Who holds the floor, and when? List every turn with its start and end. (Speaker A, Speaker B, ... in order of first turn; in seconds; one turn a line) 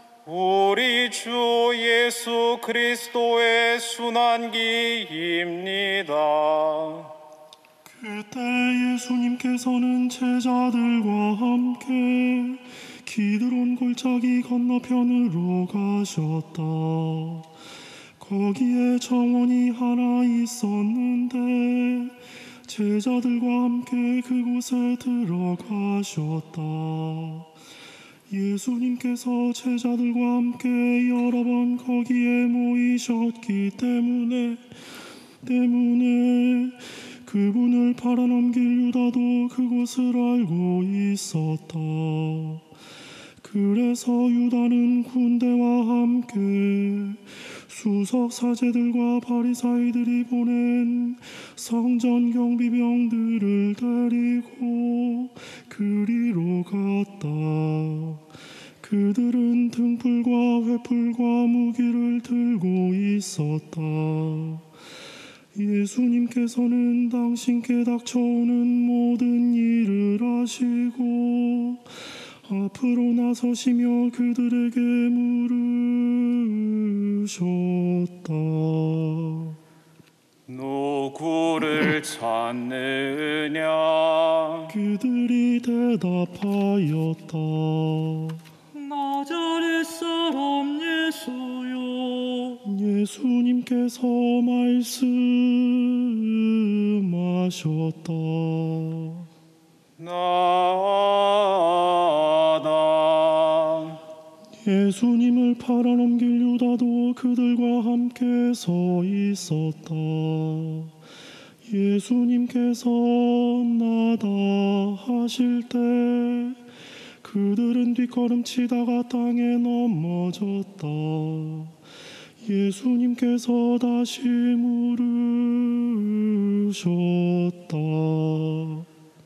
Speaker A: 0.2-7.1
Speaker B: 7.8-17.5
Speaker B: 18.2-27.5
Speaker B: 28.3-34.7
Speaker B: 35.4-42.7
Speaker B: 43.4-58.2
Speaker B: 58.8-64.7
Speaker B: 65.5-79.6
Speaker A: 80.5-84.7
Speaker B: 84.7-88.4
Speaker C: 88.7-92.6
Speaker B: 92.6-99.3
Speaker A: 100.0-104.0
Speaker B: 104.6-111.0
Speaker B: 111.6-116.6
Speaker B: 117.2-121.8
Speaker B: 122.4-128.9